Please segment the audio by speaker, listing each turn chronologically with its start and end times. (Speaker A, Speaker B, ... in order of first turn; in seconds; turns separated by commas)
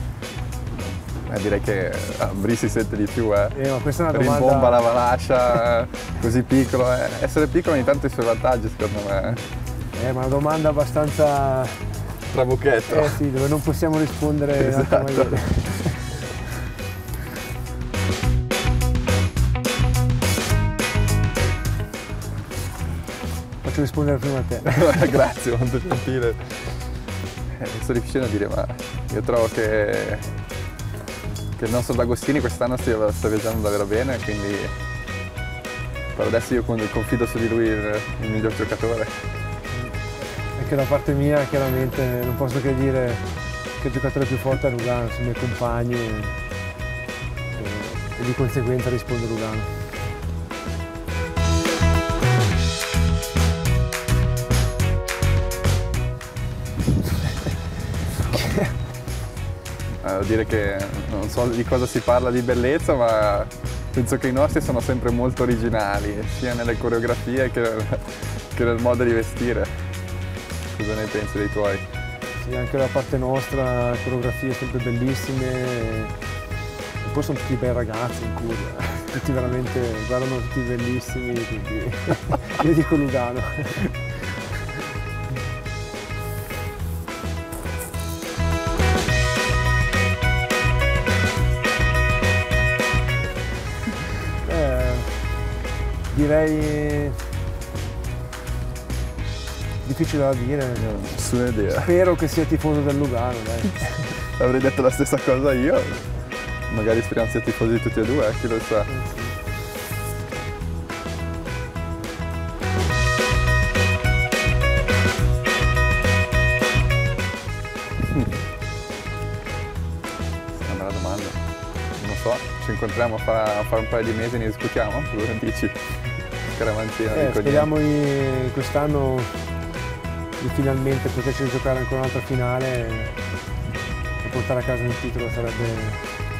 Speaker A: 1.3-9.4, Speaker B: 3.5-4.9, Speaker B: 9.9-12.0, Speaker A: 12.3-13.2, Speaker B: 12.9-16.2, Speaker A: 14.6-15.9, Speaker B: 23.6-25.1, Speaker A: 24.7-30.3, Speaker A: 31.6-34.8, Speaker A: 36.1-39.2, Speaker B: 40.5-46.4, Speaker B: 47.5-49.7, Speaker B: 58.3-58.7, Speaker A: 60.0-69.9, Speaker A: 70.7-71.8, Speaker B: 72.4-76.2, Speaker B: 77.0-84.0, Speaker B: 94.4-95.3, Speaker B: 96.1-97.2, Speaker B: 99.8-101.0, Speaker A: 100.8-101.9, Speaker B: 101.7-104.2, Speaker A: 104.1-108.9, Speaker B: 108.9-109.3, Speaker A: 120.5-121.4, Speaker A: 122.0-127.7, Speaker B: 127.1-129.4, Speaker B: 130.4-133.2, Speaker B: 134.2-136.1